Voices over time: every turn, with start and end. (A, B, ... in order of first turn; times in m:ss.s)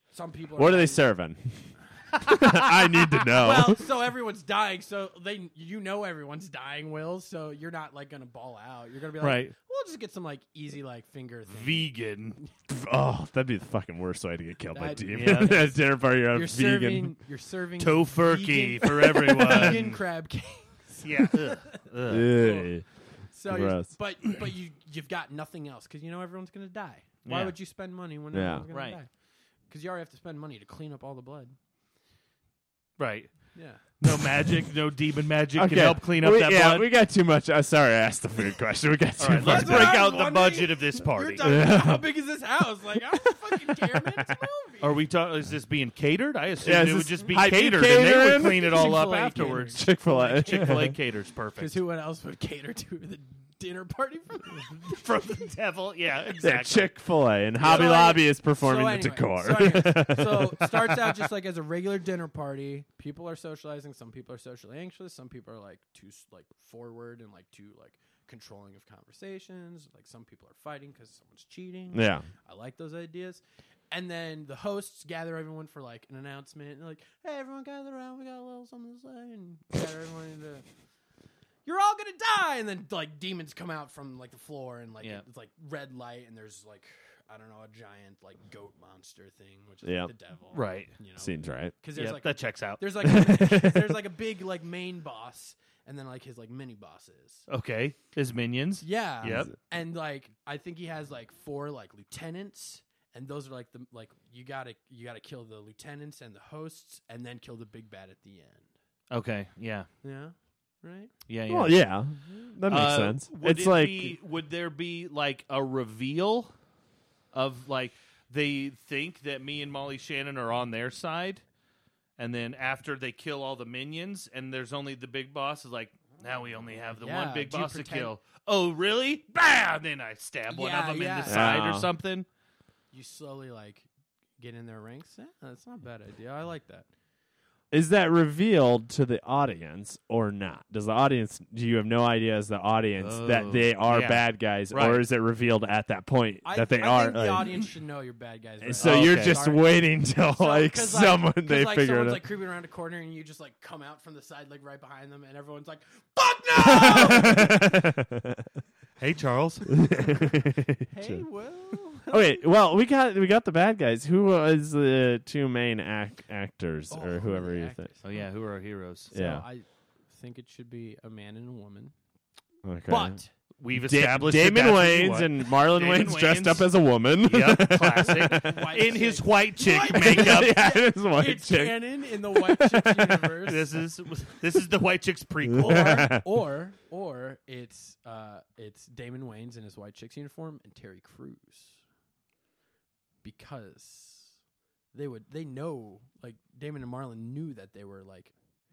0:00.1-0:01.1 A
0:00.6-0:03.8 B
0:02.2-0:02.9 C
0:03.3-0:11.9 A
0:09.2-0:09.5 C
0:11.5-0:12.4 C
0:12.7-0:17.1 B
0:14.7-0:15.7 A
0:15.1-0:15.7 C
0:16.3-0:22.7 A
0:17.8-0:20.0 C
0:21.0-0:22.4 C
0:22.1-0:22.8 B
0:23.3-0:29.1 A
0:23.4-0:23.9 B
0:27.2-0:27.5 C
0:28.3-0:28.6 B
0:28.7-0:29.0 C
0:29.7-0:31.5 A
0:33.0-0:36.9 C
0:33.5-0:33.8 A
0:35.6-0:40.0 B
0:39.2-0:41.4 C
0:39.4-0:45.0 A
0:41.4-0:42.0 B
0:43.3-0:44.2 B
0:44.8-0:49.9 C
0:46.6-0:50.9 B
0:48.4-0:50.9 A
0:50.4-0:51.8 C
0:51.6-0:55.4 A
0:54.7-0:56.9 C
0:56.4-1:00.9 B
0:57.6-1:20.6 A
1:11.9-1:12.3 B
1:21.6-1:37.4 A
1:29.8-1:30.1 B
1:30.5-1:30.9 C
1:31.2-1:31.7 B
1:32.0-1:32.8 C
1:33.0-1:34.0 B
1:37.5-1:39.5 C
1:38.8-1:48.7 A
1:39.2-1:39.5 B
1:49.1-1:49.9 C
1:50.0-1:51.1 A
1:51.3-1:51.8 C
1:51.5-1:54.2 B
1:52.7-1:56.5 C
1:57.3-2:01.4 C
2:02.2-2:12.2 C
2:06.9-2:08.1 A
2:10.5-2:11.6 A
2:11.2-2:11.9 B
2:12.9-2:13.9 A
2:14.4-2:16.9 A
2:17.7-2:27.6 B
2:23.0-2:25.0 C
2:26.4-2:37.7 A
2:28.6-2:32.2 B
2:28.8-2:29.4 C
2:36.6-2:38.5 B
2:39.0-2:39.7 C
2:39.7-2:41.2 B
2:40.9-2:42.4 A
2:42.1-2:47.9 B
2:46.9-2:48.3 A
2:48.0-2:49.1 C
2:49.1-2:49.4 B
2:49.1-2:51.9 A
2:52.6-2:53.2 B
2:52.9-2:53.3 A
2:53.6-3:00.6 C
2:53.7-2:58.7 B
2:58.2-3:03.8 A
2:59.9-3:03.4 B
3:03.4-3:06.1 C
3:05.5-3:06.2 B
3:05.5-3:11.8 A
3:13.2-3:14.3 A
3:14.9-3:18.3 A